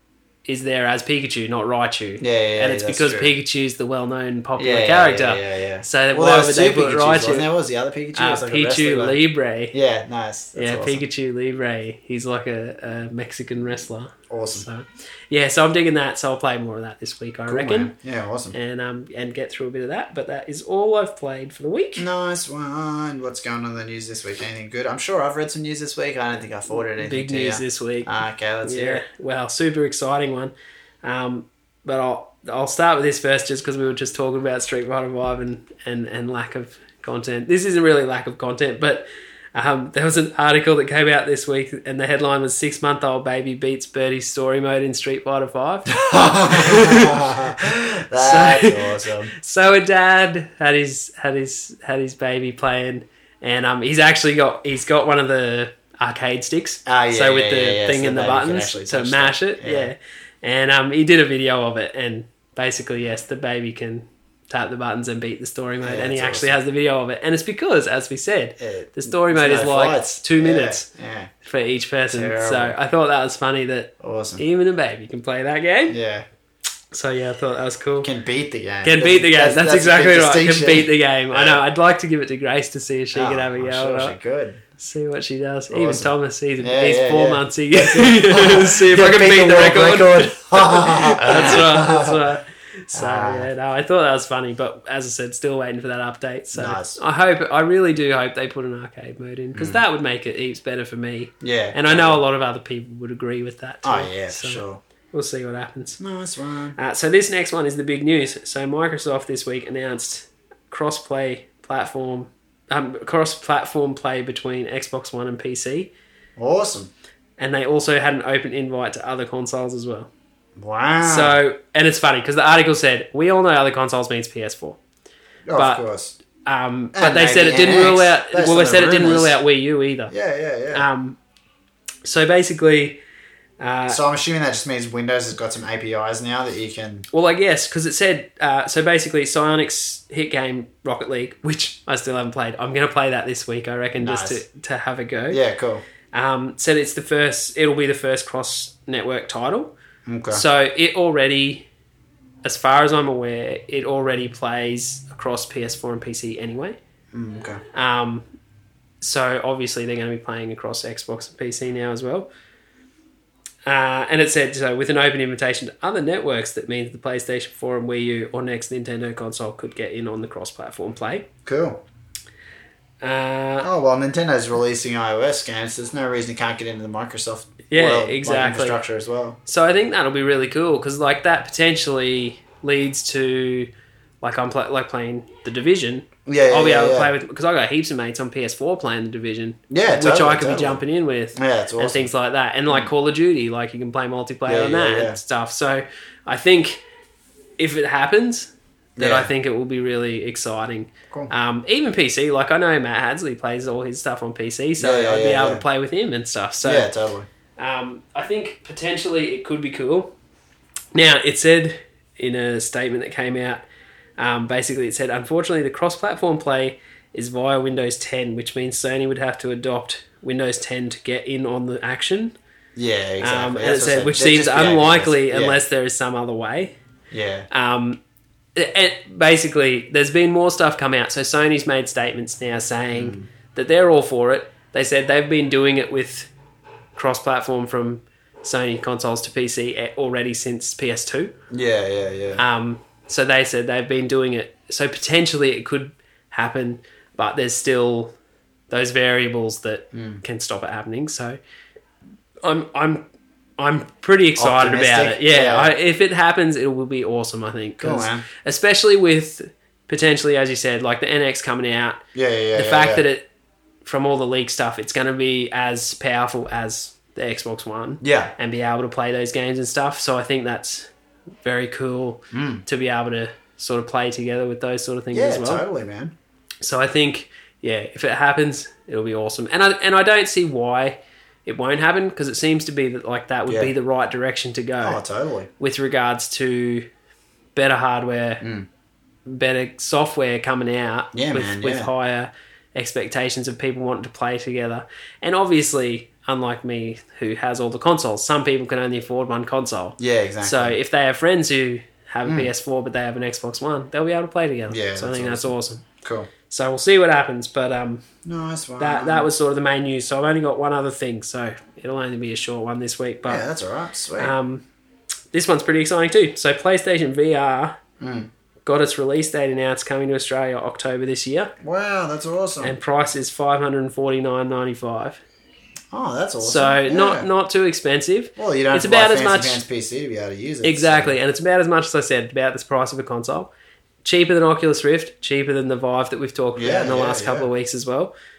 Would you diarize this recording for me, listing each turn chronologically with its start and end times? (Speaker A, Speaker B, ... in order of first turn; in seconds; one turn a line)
Speaker A: 0.5-7.5
Speaker B: 2.2-3.4
Speaker B: 4.6-9.2
Speaker A: 8.2-9.8
Speaker B: 9.7-11.0
Speaker A: 10.6-17.9
Speaker B: 14.3-14.7
Speaker B: 17.5-18.6
Speaker A: 18.5-22.1
Speaker B: 22.0-29.0
Speaker A: 27.0-28.1
Speaker A: 28.6-70.9
Speaker B: 45.9-49.3
Speaker B: 56.9-59.9
Speaker B: 65.8-66.5
Speaker B: 68.6-71.3
Speaker A: 71.4-76.0
Speaker B: 72.1-72.8
Speaker B: 74.0-74.4
Speaker B: 75.9-76.3
Speaker A: 76.9-78.1
Speaker B: 78.0-81.6
Speaker A: 78.8-84.2
Speaker B: 83.1-84.6
Speaker A: 84.8-106.0
Speaker B: 85.7-92.2
Speaker B: 92.9-93.5
Speaker B: 96.5-97.0
Speaker B: 99.5-99.8
Speaker B: 101.4-102.2
Speaker B: 103.8-104.8
Speaker B: 106.0-106.8
Speaker A: 106.8-115.9
Speaker B: 116.4-116.9
Speaker A: 117.4-120.1
Speaker B: 120.6-121.4
Speaker A: 121.0-124.8
Speaker B: 125.5-126.2
Speaker A: 125.5-125.8
Speaker A: 126.5-130.1
Speaker B: 126.9-129.4
Speaker B: 130.1-130.9
Speaker A: 130.7-131.2
Speaker A: 132.1-133.0
Speaker A: 133.6-134.0
Speaker B: 133.9-137.1
Speaker A: 137.1-145.4
Speaker B: 144.0-144.4
Speaker B: 145.3-145.8
Speaker A: 146.1-149.8
Speaker B: 150.1-150.4
Speaker A: 150.3-151.7
Speaker A: 152.4-156.8
Speaker B: 157.1-157.6
Speaker A: 157.7-158.2
Speaker A: 159.0-162.3
Speaker A: 163.7-171.3
Speaker B: 171.4-171.8
Speaker A: 173.0-173.7
Speaker B: 173.6-179.4
Speaker A: 177.7-178.8
Speaker A: 179.5-183.7
Speaker A: 184.2-196.8
Speaker B: 186.3-187.1
Speaker B: 189.7-190.8
Speaker B: 191.4-192.1
Speaker B: 194.5-195.2
Speaker A: 197.6-206.9
Speaker B: 199.0-199.3
Speaker B: 204.8-205.6
Speaker B: 206.6-207.3
Speaker A: 207.6-210.1
Speaker A: 210.9-213.7
Speaker A: 214.2-222.3
Speaker B: 222.8-225.6
Speaker A: 223.2-226.8
Speaker B: 227.1-227.5
Speaker A: 227.5-228.0
Speaker A: 228.6-236.3
Speaker B: 232.9-233.3
Speaker A: 237.0-241.3
Speaker B: 241.5-242.4
Speaker A: 242.4-248.1
Speaker A: 248.7-251.4
Speaker B: 249.9-250.2
Speaker A: 252.4-253.1
Speaker A: 253.6-262.0
Speaker B: 254.4-255.7
Speaker B: 257.8-258.3
Speaker B: 262.1-263.0
Speaker A: 262.6-263.3
Speaker A: 263.8-270.9
Speaker B: 268.0-268.3
Speaker A: 271.4-275.6
Speaker B: 272.3-272.6
Speaker B: 275.1-276.1
Speaker A: 276.6-285.0
Speaker B: 283.5-283.7
Speaker B: 284.8-285.5
Speaker A: 285.6-286.9
Speaker A: 287.5-288.4
Speaker B: 288.4-288.7
Speaker A: 289.3-305.9
Speaker B: 291.1-291.9
Speaker B: 300.0-300.8
Speaker B: 302.2-302.5
Speaker B: 304.7-306.3
Speaker A: 306.5-308.0
Speaker B: 308.2-309.3
Speaker A: 308.8-313.4
Speaker B: 313.3-314.3
Speaker A: 314.2-314.6
Speaker A: 315.3-317.8
Speaker B: 318.0-318.3
Speaker A: 318.6-321.5
Speaker B: 321.6-322.8
Speaker A: 322.6-325.2
Speaker B: 325.9-327.3
Speaker A: 326.4-329.6
Speaker B: 328.4-331.2
Speaker A: 330.6-333.5
Speaker A: 334.0-338.1
Speaker B: 336.6-337.5